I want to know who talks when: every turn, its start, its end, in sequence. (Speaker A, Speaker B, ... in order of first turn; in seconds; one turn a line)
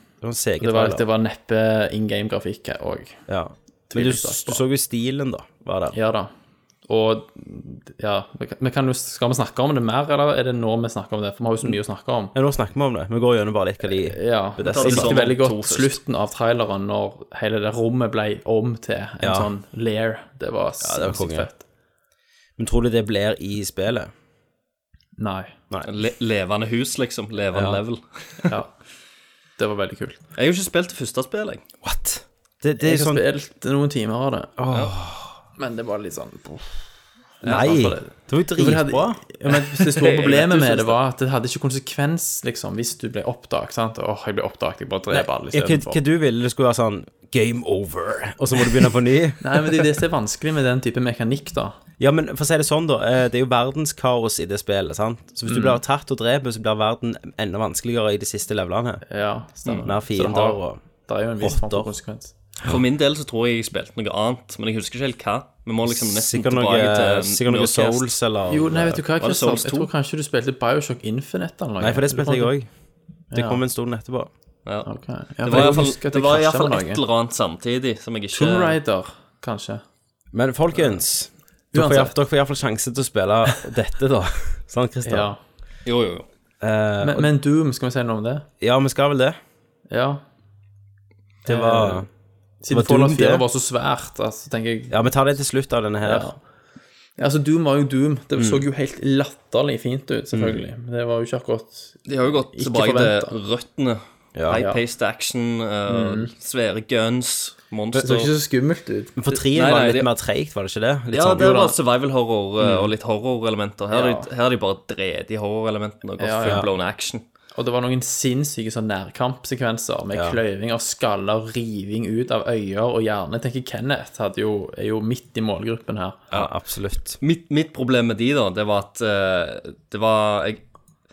Speaker A: 0.2-1.0
Speaker B: 0.6-3.3
Speaker A: 3.3-6.0
Speaker B: 3.9-4.6
Speaker B: 5.9-6.3
Speaker B: 6.9-12.3
Speaker A: 12.3-15.2
Speaker B: 13.8-21.6
Speaker C: 14.7-16.0
Speaker A: 19.2-19.5
Speaker A: 20.8-21.5
Speaker A: 22.6-24.1
Speaker B: 25.2-25.5
Speaker C: 25.8-28.0
Speaker A: 27.5-27.8
Speaker B: 28.4-28.7
Speaker B: 29.6-30.2
Speaker C: 30.4-31.6
Speaker A: 31.8-33.2
Speaker B: 32.8-34.5
Speaker A: 34.6-35.4
Speaker B: 35.6-36.8
Speaker B: 37.4-46.0
Speaker A: 37.4-39.2
Speaker C: 39.5-41.0
Speaker A: 45.1-50.0
Speaker B: 49.4-51.8
Speaker A: 52.0-59.0
Speaker B: 59.1-62.3
Speaker A: 59.8-60.8
Speaker A: 61.4-61.9
Speaker C: 62.6-68.1
Speaker A: 65.9-69.0
Speaker B: 68.5-72.5
Speaker C: 69.2-69.9
Speaker A: 71.8-72.7
Speaker B: 73.3-73.6
Speaker A: 73.3-74.3
Speaker B: 74.8-77.0
Speaker C: 75.4-78.8
Speaker B: 78.3-79.8
Speaker A: 80.3-85.3
Speaker B: 81.7-82.2
Speaker B: 85.0-85.4
Speaker C: 85.9-86.3
Speaker A: 86.6-87.3
Speaker B: 87.0-88.5
Speaker A: 88.6-89.4
Speaker B: 89.9-90.2
Speaker A: 91.5-92.1
Speaker B: 91.5-92.1
Speaker B: 92.6-95.1
Speaker A: 92.7-93.5
Speaker A: 94.9-96.3
Speaker B: 96.0-96.4
Speaker B: 97.2-103.4
Speaker A: 98.4-98.7
Speaker A: 100.3-100.6
Speaker C: 102.1-108.3
Speaker A: 104.3-104.6
Speaker B: 104.5-104.8
Speaker B: 105.9-106.3
Speaker B: 108.0-109.2
Speaker A: 109.2-111.6
Speaker C: 109.5-110.1
Speaker C: 111.1-117.2
Speaker B: 111.4-111.7
Speaker B: 112.6-112.9
Speaker B: 113.9-114.3
Speaker B: 116.2-116.7
Speaker B: 117.5-126.3
Speaker A: 120.1-120.4
Speaker A: 126.3-127.2
Speaker C: 127.2-130.7